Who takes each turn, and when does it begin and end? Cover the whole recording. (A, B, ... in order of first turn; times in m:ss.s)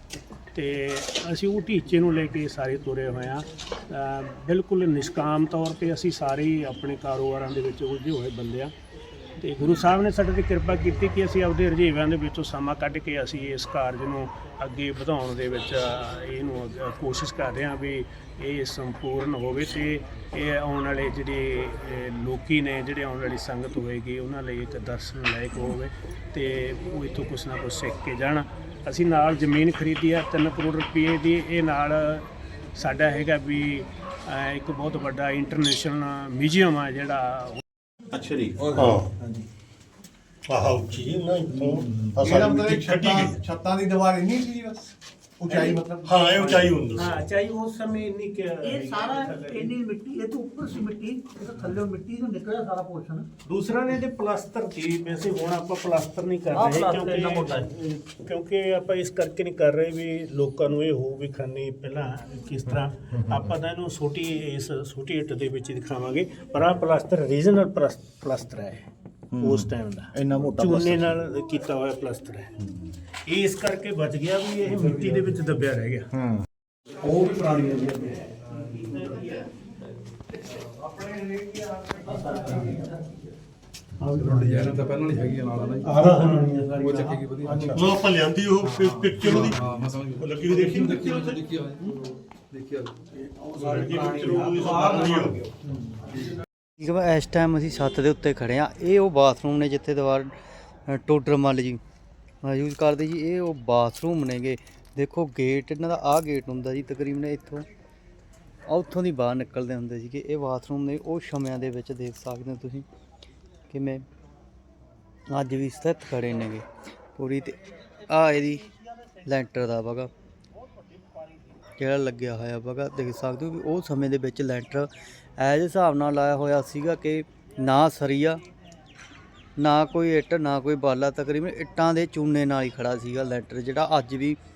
0:00.5-0:08.7 A
0:09.4-0:37.6 A
0:38.1-0:39.1 B
0:39.2-0:39.4 A
0:40.5-0:43.4 B
0:42.2-0:46.7 C
0:45.5-0:45.8 A
0:46.0-0:47.1 B
0:46.9-0:49.8 A
0:48.7-0:53.3 D
0:53.4-1:12.5 A
0:56.6-0:57.7 D
1:09.3-1:11.2 C
1:13.2-1:16.1 A
1:16.1-1:16.4 C
1:17.0-1:18.2 A
1:17.1-1:18.1 D
1:21.2-1:22.8 D
1:24.0-1:25.3 D
1:24.3-1:25.9 E
1:25.8-1:27.9 D
1:25.8-1:27.1 A
1:27.0-1:27.7 E
1:27.7-1:31.5 B
1:29.4-1:31.8 E
1:33.5-1:35.4 B
1:33.6-1:34.5 A
1:33.6-1:35.4 D
1:36.8-1:40.3 F
1:40.9-1:41.8 F
1:42.4-1:47.7 F
1:48.7-1:52.9 F
1:53.7-1:54.0 F
1:55.3-1:58.7 F
1:59.3-2:00.1 F
2:01.8-2:08.4 F
2:09.6-2:14.4 F